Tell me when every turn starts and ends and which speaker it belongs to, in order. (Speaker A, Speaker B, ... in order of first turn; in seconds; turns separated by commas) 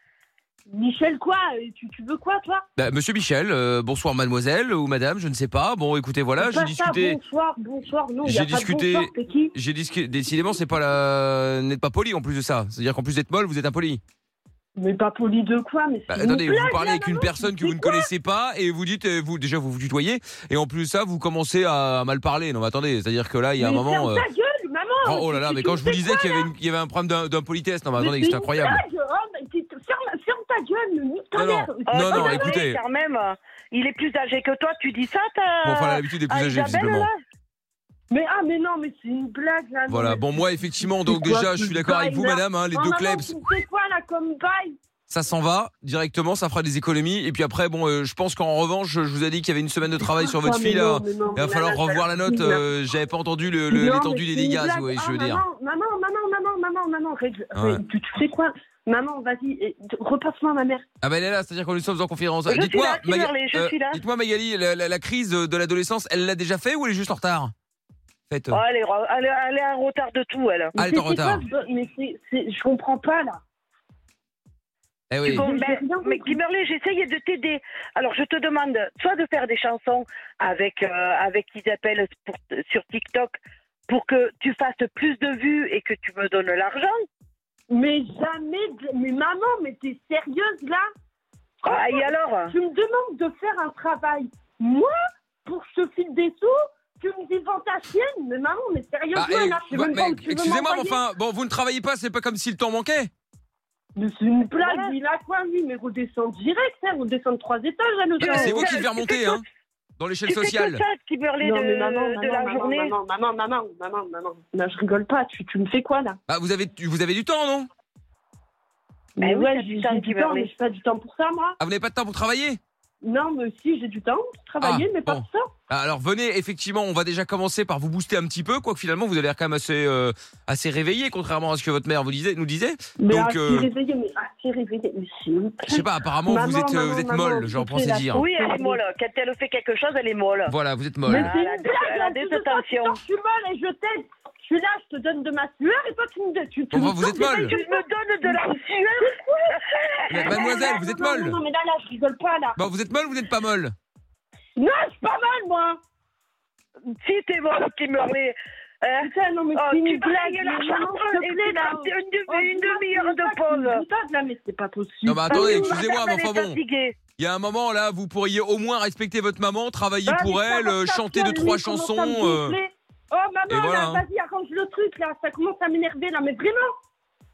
Speaker A: 0.7-2.7, Speaker B: 2.8-7.2, Speaker A: 6.4-9.5, Speaker B: 8.2-14.0, Speaker A: 14.8-18.1, Speaker B: 16.1-24.3, Speaker A: 23.6-26.5, Speaker B: 25.0-28.8, Speaker A: 28.0-32.6, Speaker B: 31.4-32.8, Speaker C: 31.8-37.1, Speaker B: 35.6-37.1, Speaker A: 38.1-44.8, Speaker B: 39.9-43.4, Speaker B: 45.1-55.4, Speaker A: 50.0-52.7, Speaker A: 53.7-60.9, Speaker B: 57.5-57.8, Speaker B: 61.0-67.5, Speaker C: 62.5-64.0, Speaker B: 68.3-68.6, Speaker C: 68.5-70.8, Speaker B: 70.8-71.4, Speaker A: 70.8-73.4, Speaker B: 75.1-75.5, Speaker C: 75.2-83.4, Speaker A: 75.3-76.4, Speaker C: 83.9-87.0, Speaker A: 87.7-90.8, Speaker C: 91.6-92.6, Speaker A: 91.6-94.9, Speaker A: 95.5-101.0, Speaker B: 99.1-103.1, Speaker A: 104.0-108.7, Speaker C: 104.5-105.0, Speaker B: 108.2-109.4, Speaker C: 108.2-109.4, Speaker B: 110.0-110.8, Speaker C: 110.3-113.0, Speaker A: 111.4-116.2, Speaker B: 116.3-117.7, Speaker A: 119.2-121.6, Speaker C: 119.2-120.5, Speaker B: 121.6-122.6, Speaker A: 123.0-125.5, Speaker B: 124.6-133.7, Speaker A: 133.0-138.8, Speaker B: 135.7-138.3, Speaker C: 138.1-140.6, Speaker B: 140.5-141.3, Speaker A: 141.0-148.4, Speaker C: 141.1-143.0, Speaker B: 146.7-147.6, Speaker C: 147.2-150.8, Speaker A: 149.0-152.6, Speaker B: 150.1-151.4, Speaker B: 152.6-153.8, Speaker A: 154.6-155.8, Speaker C: 157.0-163.9, Speaker A: 159.0-165.8, Speaker B: 165.1-172.6, Speaker C: 165.3-167.1, Speaker A: 170.1-176.7, Speaker B: 173.5-174.0